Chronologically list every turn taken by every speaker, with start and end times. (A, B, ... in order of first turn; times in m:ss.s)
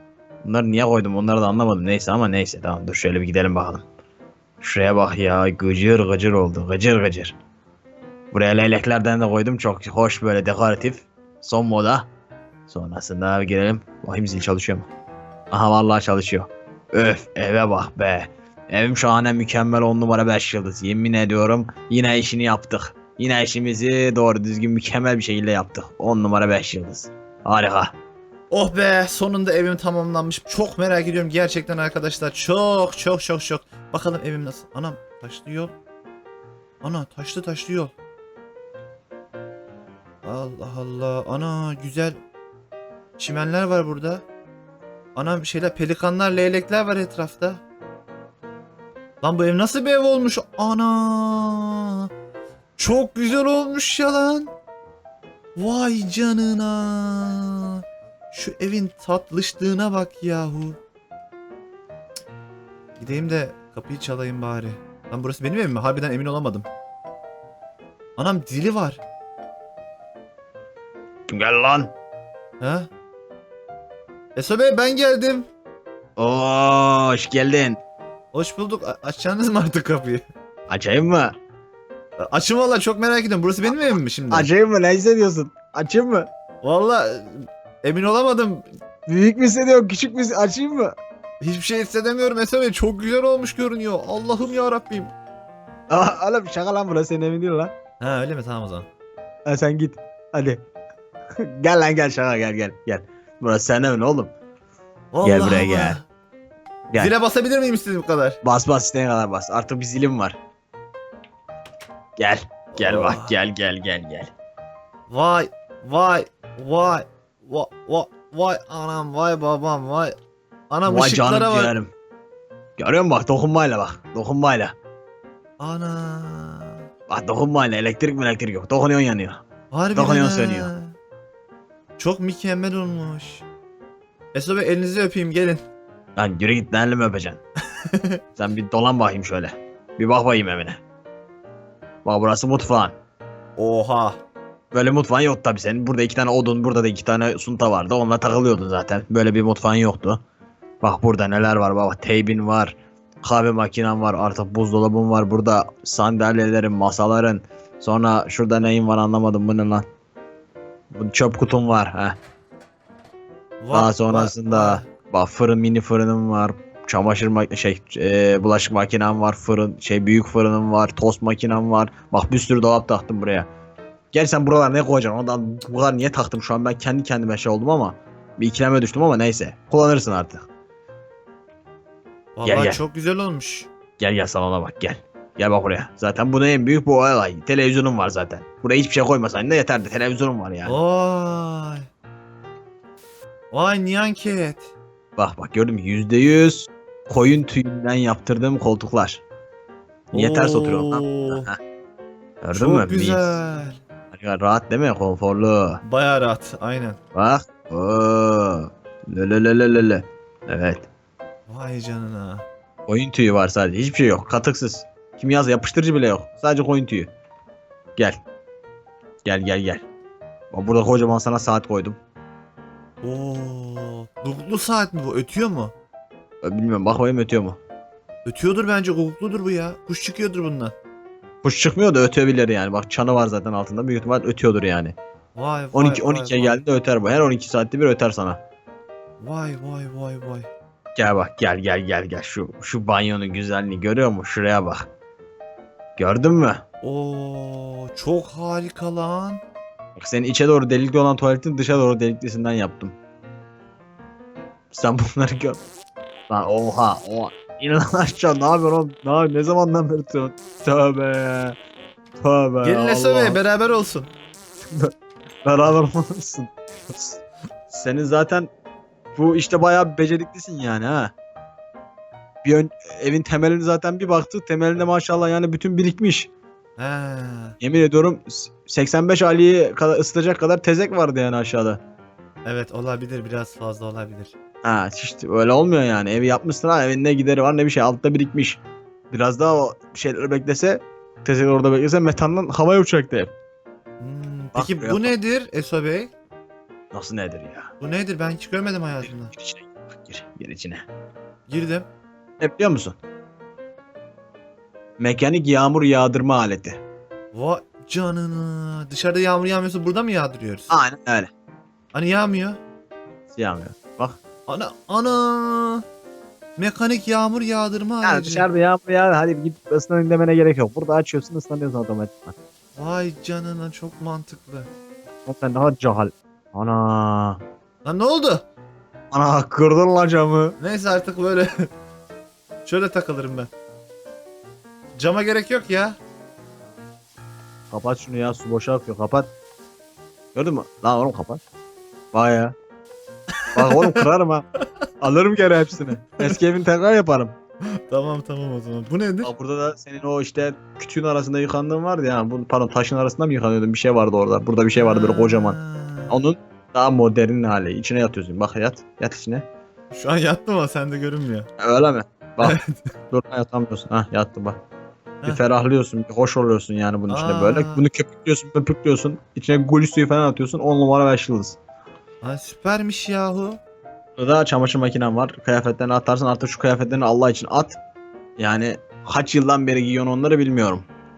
0:00.4-0:03.8 A
0:04.6-0:07.4 A
0:08.3-0:12.1 A
0:12.7-0:14.9 A
0:15.5-0:27.9 A
0:28.5-0:35.7 B
0:36.8-0:37.9 B
0:40.2-0:42.2 B
0:43.2-0:44.2 B
0:45.2-0:47.6 B
0:49.2-0:52.1 B
0:52.8-0:54.5 B
0:55.6-1:00.8 B
1:03.0-1:06.7 B
1:08.2-1:09.0 B
1:11.3-1:11.9 A
1:12.6-1:12.9 B
1:14.4-1:15.5 B
1:16.2-1:17.8 A
1:18.3-1:20.2 B
1:20.7-1:21.3 A
1:22.2-1:24.5 B
1:24.3-1:26.3 A
1:26.6-1:28.7 B
1:29.1-1:31.0 A
1:31.4-1:35.1 B
1:35.9-1:37.7 A
1:38.0-1:38.9 B
1:39.5-1:40.6 A
1:41.4-1:44.3 A
1:45.1-1:46.0 B
1:45.2-1:46.0 A
1:47.0-1:48.4 B
1:48.4-1:50.4 A
1:52.2-1:54.3 A
1:52.7-1:53.3 B
1:55.1-2:00.2 B
2:00.7-2:01.7 B
2:00.9-2:01.9 A
2:02.8-2:04.8 A
2:05.6-2:06.8 B
2:07.1-2:09.4 A
2:09.7-2:10.9 B
2:10.0-2:10.7 A
2:12.0-2:13.4 B
2:14.3-2:15.6 B
2:16.2-2:17.4 A
2:17.8-2:18.2 B
2:18.4-2:20.8 A
2:22.0-2:22.9 A
2:23.6-2:24.2 B
2:24.7-2:30.2 A
2:30.8-2:39.8 A
2:40.9-2:42.2 A
2:43.6-2:44.9 B
2:43.7-2:53.5 A
2:54.1-3:00.5 A
3:02.4-3:03.7 B
3:02.4-3:02.8 A
3:04.0-3:10.8 A
3:10.6-3:11.9 B
3:13.5-3:14.7 B
3:15.2-3:19.2 A
3:20.1-3:21.6 A
3:20.1-3:21.5 B
3:22.4-3:23.4 A
3:22.5-3:23.8 B
3:24.1-3:25.8 A
3:25.8-3:27.0 B
3:27.1-3:30.9 A
3:31.5-3:32.4 B
3:32.9-3:37.1 A
3:38.0-3:38.2 A
3:39.2-3:39.8 A
3:40.5-3:42.0 A
3:43.0-3:45.7 B
3:46.4-3:47.6 A
3:48.2-3:50.7 B
3:51.4-3:55.0 A
3:55.4-3:56.6 B
3:55.7-3:58.4 A
3:59.2-4:00.5 B
4:01.0-4:04.9 A
4:06.0-4:06.6 A
4:06.8-4:09.4 B
4:10.0-4:13.0 A
4:14.7-4:15.6 A
4:16.3-4:21.6 A
4:22.2-4:23.4 A
4:22.6-4:24.1 B
4:25.4-4:28.5 A
4:29.2-4:31.1 A
4:32.4-4:36.3 A
4:36.8-4:37.6 B
4:37.6-4:41.8 A
4:42.4-4:44.3 B
4:44.6-4:48.6 A
4:49.1-4:53.3 A
4:54.0-4:56.1 B
4:54.6-4:55.1 A
4:56.9-4:57.7 A
4:57.8-4:59.3 B
4:59.3-5:00.8 A
5:01.5-5:01.9 B
5:02.4-5:03.0 A
5:05.0-5:06.8 A
5:07.3-5:10.8 B
5:10.7-5:11.3 A
5:11.9-5:12.6 B
5:13.3-5:14.2 A
5:14.5-5:15.8 B
5:16.6-5:18.5 B
5:18.0-5:22.4 A
5:22.8-5:24.7 B
5:25.3-5:27.4 A
5:27.8-5:28.4 B
5:29.1-5:30.6 A
5:30.6-5:31.7 B
5:32.7-5:33.5 B
5:35.0-5:36.0 B
5:37.7-5:39.3 A
5:40.3-5:41.4 A
5:42.1-5:42.6 A
5:43.4-5:44.1 B
5:43.6-5:44.4 A
5:45.0-5:47.4 A
5:47.6-5:49.3 B
5:49.2-5:55.6 A
5:54.7-5:56.2 B
5:56.1-5:59.5 A
5:59.9-6:01.5 B
6:01.6-6:02.6 A
6:02.4-6:02.9 B
6:03.1-6:04.6 A
6:05.3-6:11.6 A
6:07.1-6:07.8 B
6:12.2-6:13.6 B
6:14.2-6:17.8 A
6:18.4-6:20.9 A